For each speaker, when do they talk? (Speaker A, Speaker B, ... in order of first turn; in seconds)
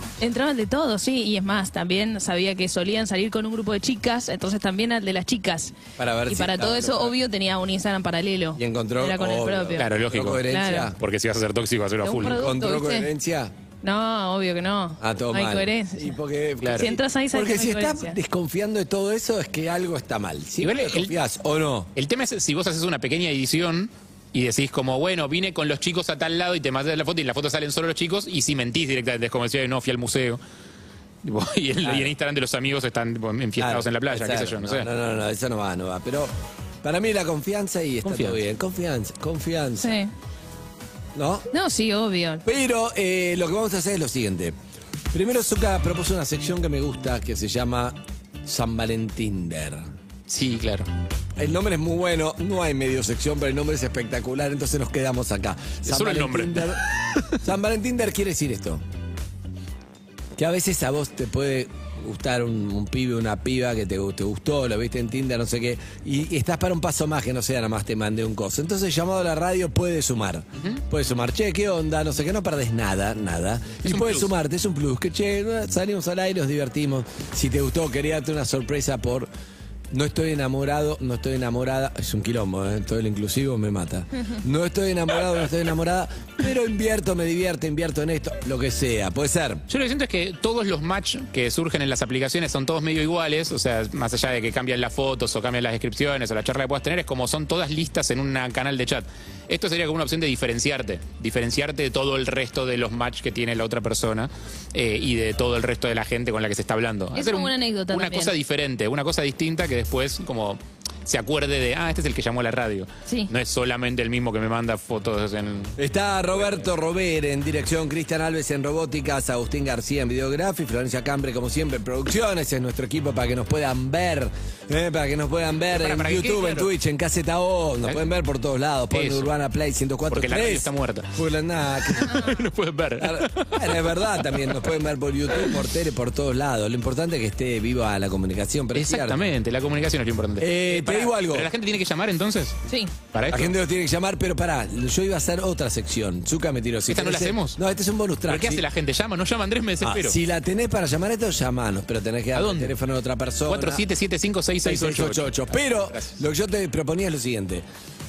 Speaker A: 0.2-9.9, 10.5-10.9, 12.0-13.1, 13.8-16.2, 16.8-18.2, 39.8-40.1, 41.5-42.4, 107.2-108.3, 142.7-142.9
Speaker B: 6.0-7.1, 8.6-11.0, 12.3-13.5, 15.0-21.9, 31.8-32.1, 33.6-36.3, 36.8-40.0, 41.1-41.5, 42.5-44.6, 45.1-49.9, 51.4-56.8, 57.4-58.8, 60.4-79.3, 79.9-89.7, 115.8-132.3, 133.0-139.2, 140.4-141.5, 143.3-148.7, 149.8-153.8, 154.6-157.7
Speaker C: 9.8-12.5, 16.6-16.9, 20.6-21.1, 22.0-30.4, 31.2-34.9, 38.0-38.4, 50.3-50.9, 55.8-57.4, 73.8-74.3, 89.7-115.8, 125.8-126.7, 128.9-129.3, 130.1-131.1, 132.0-134.7, 138.8-142.6, 143.1-143.5, 146.9-147.6, 148.3-150.2, 152.3-152.8, 153.5-156.2